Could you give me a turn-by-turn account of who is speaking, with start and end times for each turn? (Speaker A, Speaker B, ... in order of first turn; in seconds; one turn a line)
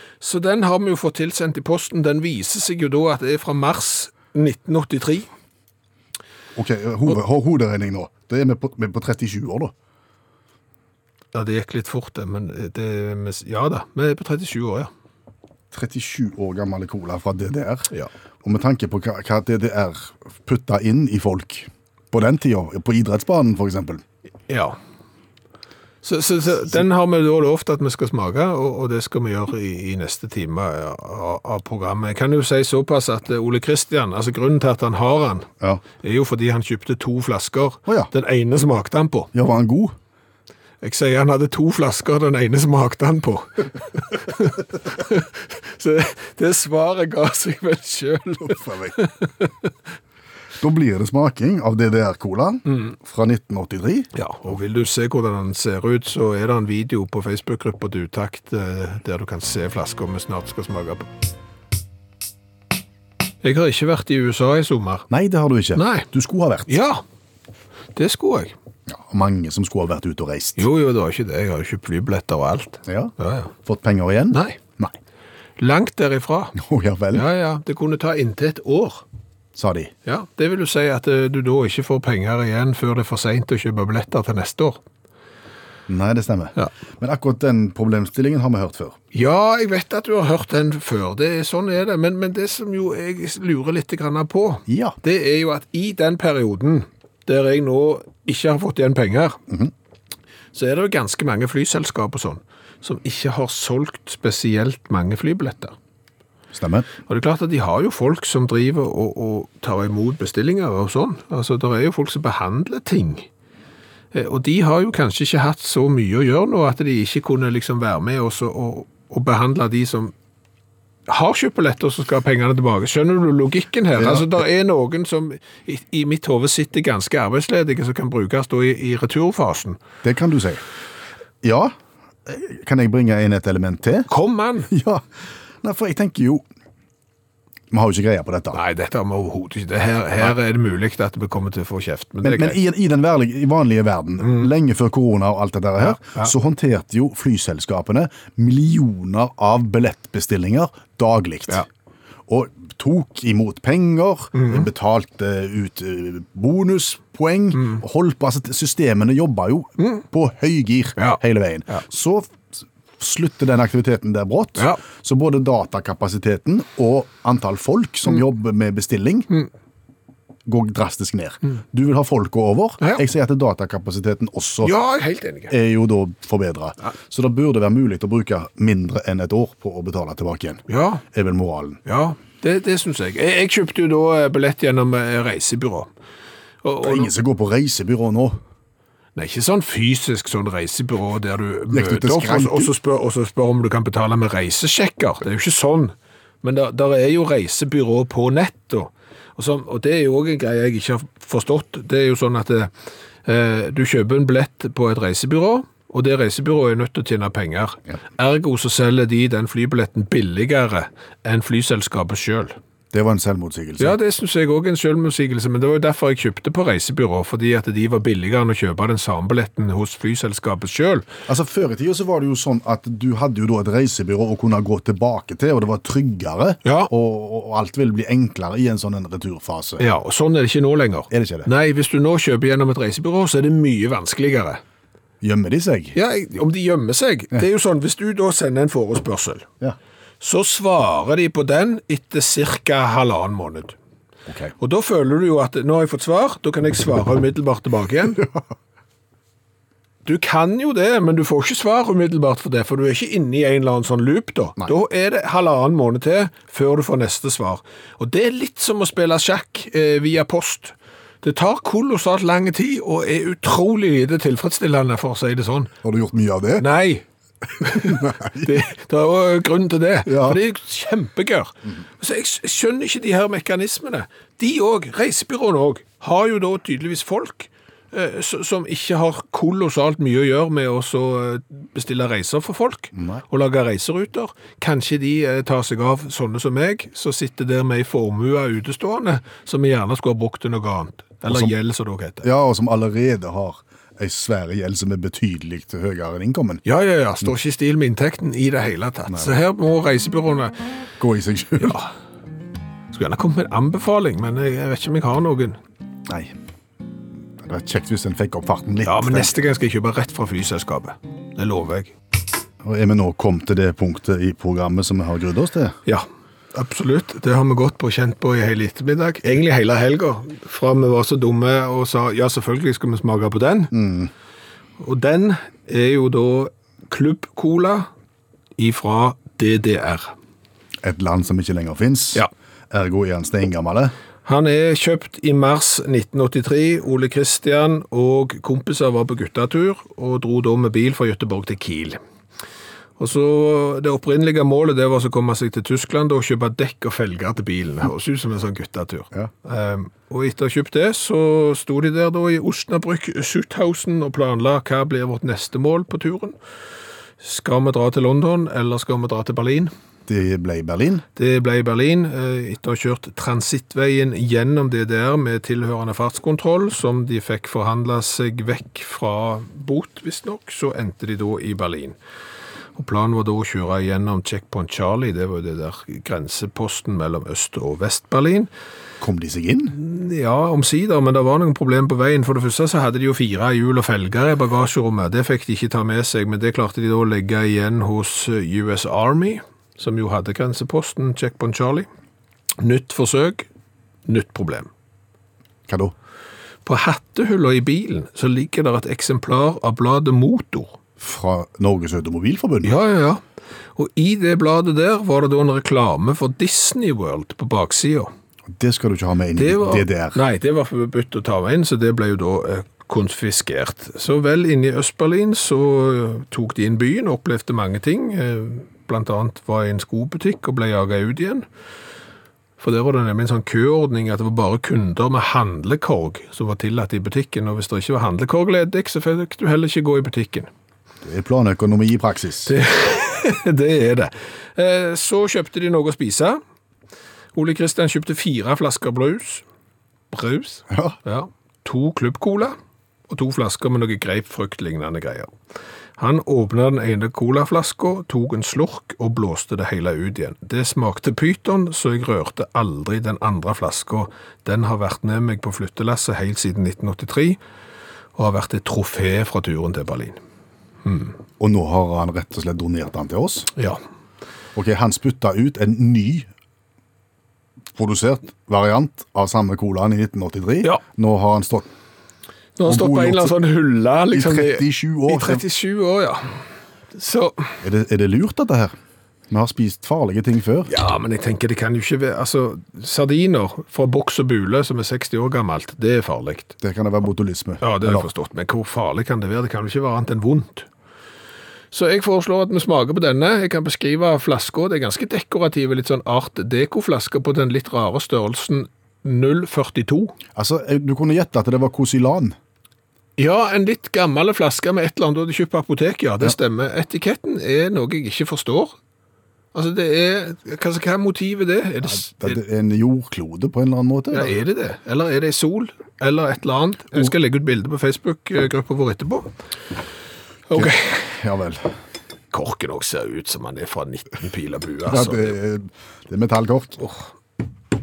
Speaker A: 0.2-5.3
Speaker B: 6.5-9.7
Speaker A: 11.3-14.9
Speaker B: 15.7-17.9
Speaker B: 18.4-24.0
Speaker A: 24.5-24.8
Speaker A: 26.0-35.5
Speaker A: 36.0-39.3
Speaker B: 39.3-40.0
Speaker A: 40.8-49.7
Speaker B: 48.5-49.0
Speaker B: 50.6-54.1
Speaker A: 52.7-52.9
Speaker A: 54.1-61.1
Speaker A: 63.4-65.1
Speaker B: 65.1-66.7
Speaker A: 65.8-66.1
Speaker A: 66.7-67.0
Speaker A: 68.0-68.5
Speaker B: 68.9-70.7
Speaker A: 70.6-73.5
Speaker B: 72.9-73.1
Speaker B: 73.7-75.0
Speaker A: 74.3-74.6
Speaker A: 75.6-76.6
Speaker B: 76.6-77.3
Speaker A: 77.1-79.0
Speaker B: 79.5-79.9
Speaker A: 80.1-84.8
Speaker B: 85.9-89.0
Speaker A: 89.1-99.4
Speaker B: 94.7-95.0
Speaker A: 100.5-105.7
Speaker B: 106.5-106.9
Speaker A: 107.1-113.3
Speaker A: 114.1-120.1
Speaker A: 121.1-129.8
Speaker B: 124.0-124.4
Speaker B: 130.0-130.6
Speaker B: 131.4-131.8
Speaker B: 132.3-134.1
Speaker A: 134.1-134.7
Speaker B: 134.7-135.1
Speaker B: 135.6-136.4
Speaker B: 137.7-138.6
Speaker A: 138.5-142.6
Speaker B: 142.2-151.7
Speaker A: 144.2-144.5
Speaker A: 145.8-146.3
Speaker B: 152.3-169.3
Speaker A: 154.3-154.7
Speaker A: 157.6-157.8
Speaker A: 161.0-161.8
Speaker B: 170.5-174.7
Speaker A: 174.6-175.5
Speaker B: 175.5-181.8
Speaker A: 180.7-181.0
Speaker A: 181.9-185.9
Speaker A: 186.6-187.1
Speaker B: 186.8-188.4
Speaker A: 189.2-202.7
Speaker B: 191.7-192.7
Speaker A: 203.3-212.6
Speaker B: 212.9-214.0
Speaker A: 213.8-221.1
Speaker B: 221.3-229.8
Speaker A: 226.7-226.9
Speaker A: 229.8-234.6
Speaker B: 231.1-231.5
Speaker B: 235.2-236.0
Speaker A: 235.9-239.5
Speaker A: 240.2-243.8
Speaker B: 244.3-244.5
Speaker A: 244.6-248.2
Speaker A: 250.1-265.7
Speaker B: 265.8-266.7
Speaker A: 266.6-267.1
Speaker A: 267.6-292.2
Speaker B: 267.6-268.6
Speaker B: 270.1-270.4
Speaker B: 282.9-283.2
Speaker B: 291.3-291.5
Speaker B: 292.2-296.6
Speaker A: 296.6-300.6
Speaker B: 299.1-299.4
Speaker B: 301.0-301.8
Speaker A: 301.6-301.9
Speaker A: 302.9-305.6
Speaker B: 306.1-306.3
Speaker B: 307.4-309.3
Speaker A: 308.8-311.9
Speaker B: 312.6-315.8
Speaker A: 315.9-323.7
Speaker B: 323.7-324.1
Speaker A: 324.8-327.9
Speaker A: 328.6-330.1
Speaker B: 330.8-333.9
Speaker A: 334.2-342.0
Speaker A: 343.0-356.4
Speaker A: 357.2-359.7
Speaker B: 360.1-361.1
Speaker A: 361.2-372.0
Speaker A: 372.8-378.5
Speaker B: 379.0-379.8
Speaker A: 379.8-391.9
Speaker A: 392.6-393.5
Speaker A: 394.1-394.7
Speaker B: 395.7-395.9
Speaker A: 396.6-400.8
Speaker B: 401.0-402.8
Speaker A: 402.6-403.2
Speaker A: 403.8-408.1
Speaker B: 408.6-410.2
Speaker A: 409.4-421.4
Speaker A: 422.6-430.5
Speaker B: 431.0-432.5
Speaker A: 432.5-436.4
Speaker A: 437.3-439.4
Speaker A: 440.1-442.6
Speaker B: 440.7-441.0
Speaker A: 443.1-445.3
Speaker A: 446.0-457.4
Speaker A: 458.2-460.2
Speaker A: 460.9-461.1
Speaker B: 461.4-463.5
Speaker B: 464.6-466.3
Speaker B: 467.8-471.7
Speaker A: 472.6-476.4
Speaker B: 472.6-473.4
Speaker B: 474.1-475.4
Speaker A: 476.9-477.6
Speaker B: 477.6-478.7
Speaker B: 479.3-480.7
Speaker A: 480.7-486.5
Speaker B: 486.6-488.1
Speaker A: 487.6-490.7
Speaker A: 491.7-500.2
Speaker B: 500.4-502.4
Speaker A: 503.2-508.8
Speaker A: 509.5-512.4
Speaker B: 511.8-514.3
Speaker A: 514.1-519.3
Speaker A: 520.5-521.1
Speaker B: 520.5-521.7
Speaker A: 522.3-525.4
Speaker B: 524.9-526.8